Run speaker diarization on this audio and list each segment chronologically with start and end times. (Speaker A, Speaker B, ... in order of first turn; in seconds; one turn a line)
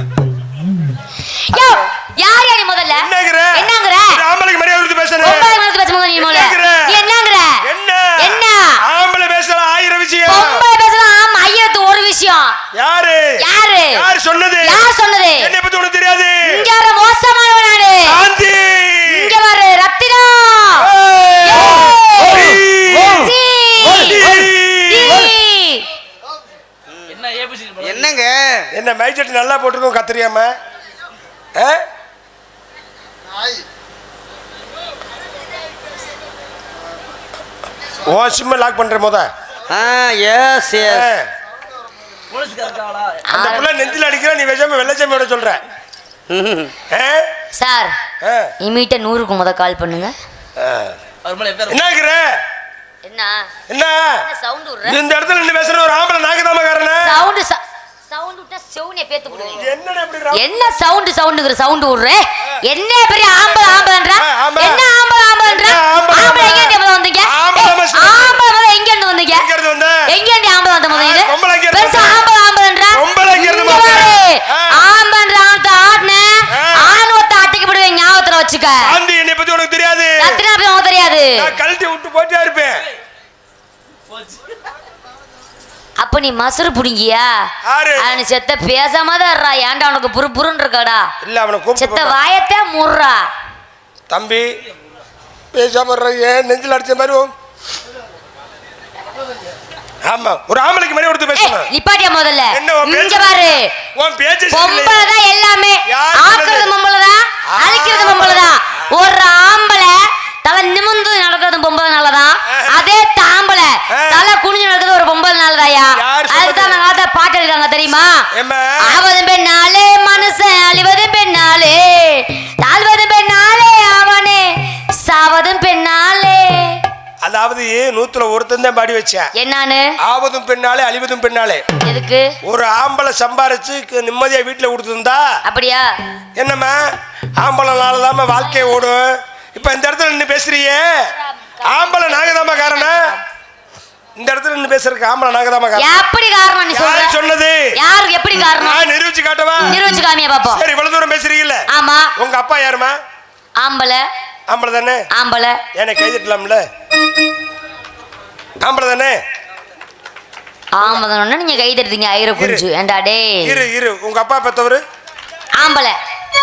Speaker A: 1.2-4.2
Speaker B: 1.5-1.8
Speaker B: 2.9-5.5
Speaker A: 5.2-7.6
Speaker B: 6.2-6.9
Speaker B: 7.6-10.6
Speaker A: 8.2-8.8
Speaker A: 10.2-12.6
Speaker B: 12.7-13.4
Speaker A: 13.4-14.0
Speaker B: 13.9-16.6
Speaker A: 14.6-15.5
Speaker A: 16.4-18.2
Speaker B: 18.0-19.3
Speaker A: 19.1-20.9
Speaker B: 20.8-25.3
Speaker A: 21.4-25.9
Speaker C: 27.0-28.7
Speaker B: 28.7-30.5
Speaker B: 31.6-31.8
Speaker B: 38.1-39.3
Speaker C: 39.7-41.1
Speaker B: 40.8-41.2
Speaker A: 43.3-43.7
Speaker B: 43.3-45.6
Speaker C: 46.3-46.7
Speaker B: 46.9-47.3
Speaker A: 47.5-47.9
Speaker B: 48.2-48.5
Speaker A: 48.6-50.1
Speaker B: 50.6-50.9
Speaker B: 51.6-52.3
Speaker A: 53.0-53.5
Speaker B: 53.7-54.2
Speaker A: 54.2-55.0
Speaker B: 54.9-57.2
Speaker A: 57.0-59.7
Speaker B: 59.5-60.4
Speaker A: 60.3-69.5
Speaker B: 63.5-64.8
Speaker B: 65.5-68.4
Speaker B: 69.3-70.0
Speaker A: 70.1-78.9
Speaker B: 70.9-72.2
Speaker B: 72.9-74.8
Speaker B: 76.5-77.0
Speaker B: 78.8-80.4
Speaker A: 80.2-81.5
Speaker B: 81.3-82.8
Speaker A: 86.0-87.3
Speaker B: 87.6-88.2
Speaker A: 88.0-91.1
Speaker B: 91.2-92.2
Speaker A: 91.8-93.3
Speaker B: 94.1-94.5
Speaker B: 95.5-97.3
Speaker B: 100.0-101.7
Speaker A: 101.3-103.7
Speaker B: 102.5-103.3
Speaker B: 103.9-105.1
Speaker A: 104.5-118.2
Speaker B: 105.9-106.7
Speaker B: 107.5-108.5
Speaker B: 112.5-112.8
Speaker B: 113.9-114.2
Speaker B: 116.0-116.8
Speaker B: 118.3-119.0
Speaker A: 118.8-124.5
Speaker A: 125.0-126.8
Speaker B: 127.2-129.3
Speaker A: 129.3-129.8
Speaker B: 130.0-131.6
Speaker A: 131.8-132.3
Speaker B: 132.4-135.2
Speaker A: 135.4-135.9
Speaker B: 136.3-136.8
Speaker B: 137.4-141.1
Speaker A: 141.1-143.2
Speaker B: 141.7-143.1
Speaker B: 144.2-145.9
Speaker A: 145.8-147.2
Speaker B: 146.7-147.7
Speaker A: 147.7-148.8
Speaker B: 148.6-149.8
Speaker A: 149.7-150.6
Speaker B: 150.5-151.7
Speaker A: 151.7-152.1
Speaker B: 152.2-152.9
Speaker A: 153.6-154.0
Speaker B: 154.5-155.0
Speaker A: 155.1-155.6
Speaker B: 155.7-156.6
Speaker B: 158.6-159.2
Speaker A: 160.7-163.6
Speaker B: 162.4-162.6
Speaker B: 163.4-164.8
Speaker A: 165.6-165.9